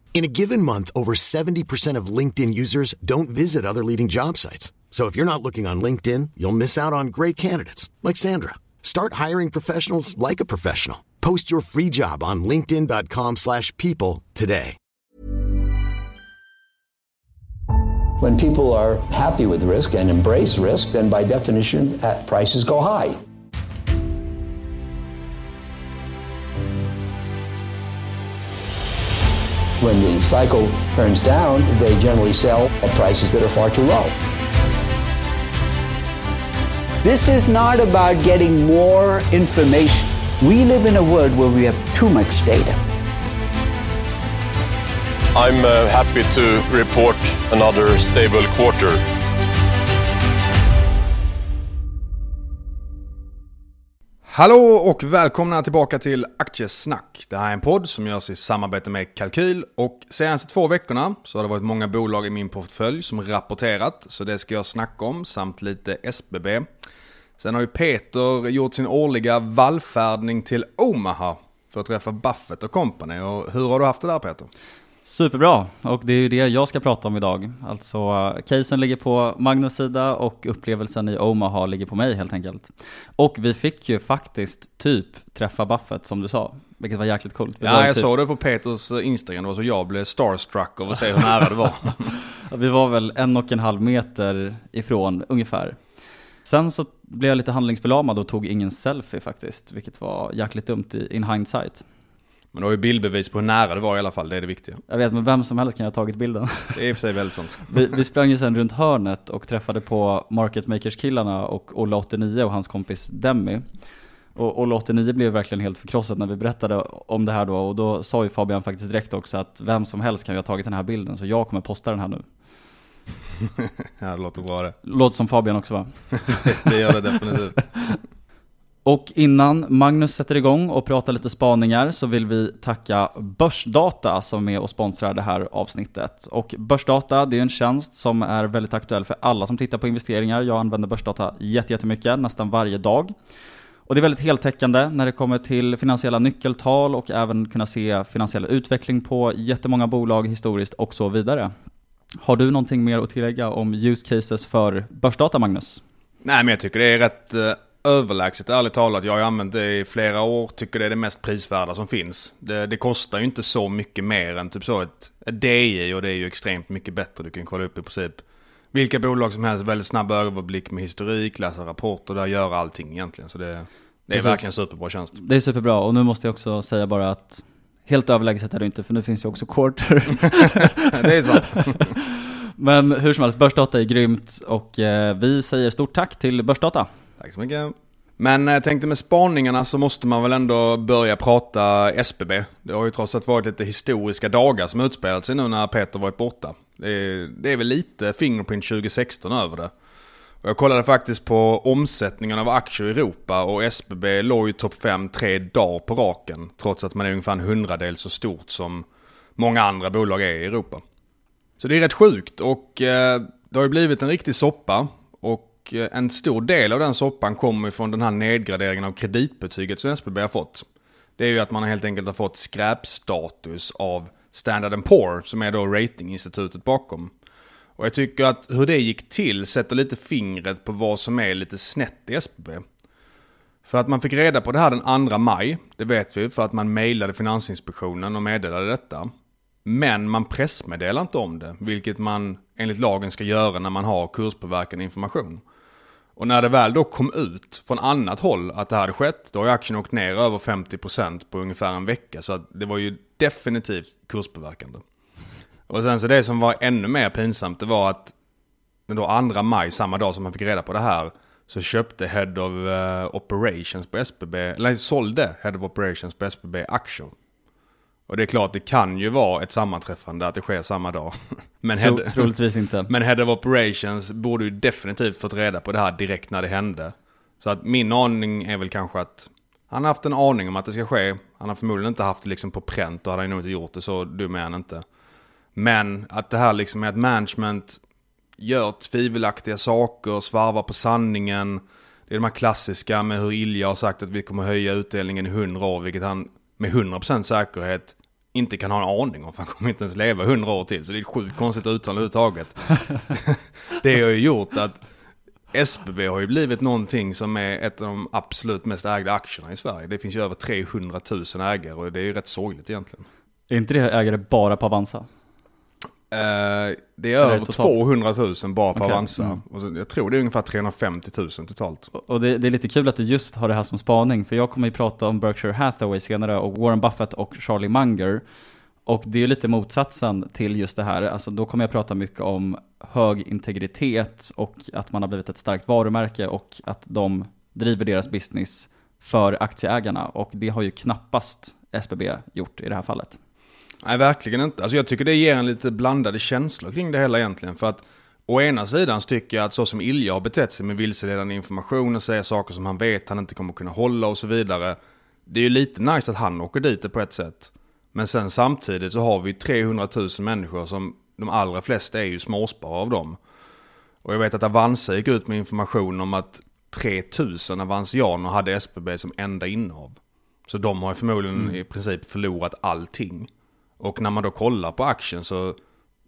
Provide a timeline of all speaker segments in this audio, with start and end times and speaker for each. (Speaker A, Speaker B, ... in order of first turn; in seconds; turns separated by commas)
Speaker A: 0.1-14.8, Speaker B: 18.2-23.2, Speaker B: 29.8-34.2, Speaker C: 37.0-42.8, Speaker D: 45.3-49.0, Speaker E: 54.3-66.7, Speaker E: 67.4-74.5, Speaker F: 75.0-88.1, Speaker E: 87.6-92.1, Speaker F: 92.5-95.8, Speaker F: 96.5-101.8, Speaker E: 102.5-104.8, Speaker F: 104.9-106.8, Speaker E: 106.7-107.9, Speaker F: 107.7-113.7, Speaker F: 114.3-122.2, Speaker E: 123.5-124.8, Speaker F: 124.8-126.8, Speaker E: 126.5-127.6, Speaker F: 127.3-128.0, Speaker F: 128.8-143.1, Speaker F: 143.9-151.5, Speaker F: 152.2-155.8, Speaker E: 156.2-175.2, Speaker F: 174.1-174.5, Speaker F: 175.2-182.0, Speaker E: 180.9-181.9, Speaker F: 182.6-186.9, Speaker E: 187.2-199.7, Speaker E: 200.4-208.9, Speaker E: 209.4-210.8, Speaker E: 211.6-220.7, Speaker E: 221.2-227.1, Speaker E: 227.8-232.7, Speaker E: 233.7-239.1, Speaker E: 239.7-245.4, Speaker E: 246.2-254.8, Speaker E: 255.7-258.1, Speaker E: 258.9-267.1, Speaker E: 268.1-272.3, Speaker F: 271.8-272.9, Speaker E: 272.9-284.9, Speaker E: 285.6-287.8, Speaker E: 288.4-304.8, Speaker E: 305.5-313.1, Speaker F: 313.5-315.1, Speaker E: 316.1-321.9, Speaker F: 317.2-317.7, Speaker F: 318.8-319.4, Speaker F: 321.9-328.2, Speaker F: 328.9-343.2, Speaker E: 343.8-363.2, Speaker E: 364.0-375.6